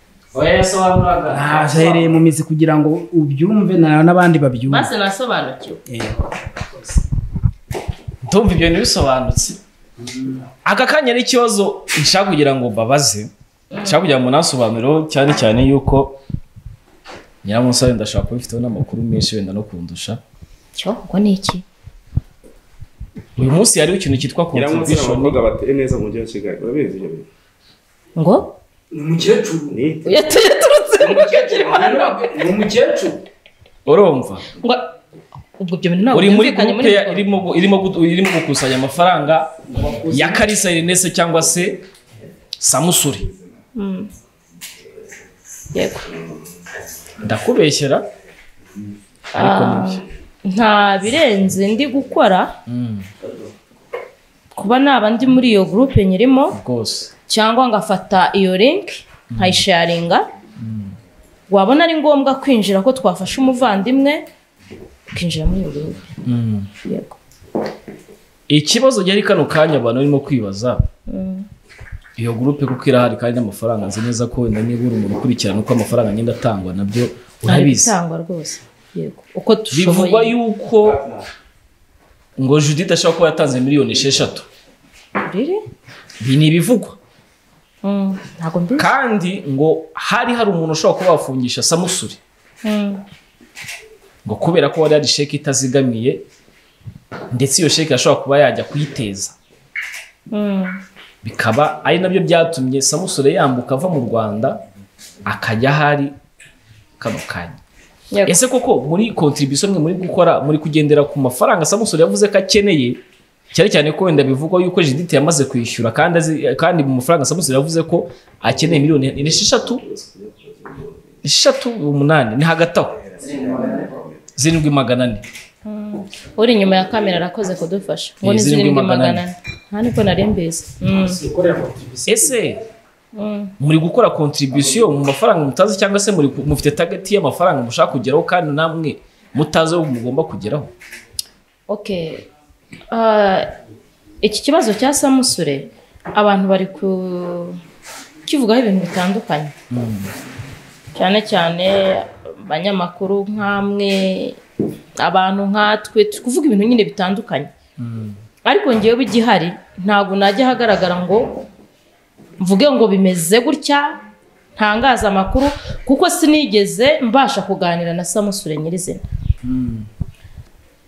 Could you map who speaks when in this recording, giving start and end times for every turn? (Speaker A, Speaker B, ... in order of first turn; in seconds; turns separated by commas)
Speaker A: 0.3-2.2, Speaker B: 1.3-4.9, Speaker C: 4.7-5.8, Speaker B: 5.9-7.0, Speaker A: 8.2-9.6, Speaker B: 10.0-10.4, Speaker A: 10.6-13.3, Speaker C: 13.7-14.0, Speaker A: 13.8-16.2, Speaker A: 17.4-20.2, Speaker C: 20.7-21.6, Speaker A: 23.4-25.4, Speaker D: 24.5-27.3, Speaker C: 28.1-28.6, Speaker B: 28.9-29.8, Speaker D: 29.7-30.1, Speaker C: 30.0-32.2, Speaker B: 31.0-33.2, Speaker A: 33.9-34.5, Speaker C: 34.6-34.9, Speaker C: 35.6-37.2, Speaker A: 36.1-41.8, Speaker B: 39.7-40.5, Speaker A: 42.6-43.3, Speaker C: 43.7-44.1, Speaker C: 45.7-46.1, Speaker A: 47.2-48.0, Speaker A: 49.3-50.0, Speaker C: 49.3-52.5, Speaker A: 52.7-53.1, Speaker C: 54.5-56.6, Speaker A: 56.5-57.1, Speaker C: 57.3-60.3, Speaker A: 59.3-59.6, Speaker A: 60.6-61.0, Speaker C: 61.5-64.2, Speaker C: 65.1-66.0, Speaker A: 66.2-66.7, Speaker C: 66.8-67.2, Speaker A: 68.5-70.8, Speaker C: 71.1-71.5, Speaker A: 72.2-77.9, Speaker C: 77.5-80.3, Speaker A: 79.7-81.0, Speaker A: 82.4-84.5, Speaker C: 85.2-85.6, Speaker A: 86.2-87.0, Speaker C: 87.8-88.9, Speaker A: 88.8-92.2, Speaker C: 92.6-93.0, Speaker A: 94.2-96.2, Speaker A: 97.3-99.3, Speaker C: 100.3-100.8, Speaker A: 101.2-104.6, Speaker A: 105.2-106.1, Speaker A: 107.0-107.6, Speaker C: 108.1-108.4, Speaker A: 108.2-113.0, Speaker A: 113.5-119.8, Speaker D: 119.9-120.8, Speaker A: 121.2-123.1, Speaker D: 123.2-124.0, Speaker A: 124.3-125.2, Speaker C: 125.7-131.2, Speaker A: 128.2-129.2, Speaker B: 130.8-132.4, Speaker A: 132.1-132.6, Speaker C: 133.1-133.5, Speaker A: 133.6-140.7, Speaker C: 141.7-142.3, Speaker C: 142.9-143.5, Speaker C: 144.2-147.6, Speaker C: 148.2-149.5, Speaker A: 149.7-150.1, Speaker C: 150.9-154.4, Speaker C: 155.0-157.5, Speaker A: 157.8-158.2, Speaker C: 158.4-161.4, Speaker C: 162.4-163.9, Speaker C: 164.6-169.0, Speaker A: 169.4-169.9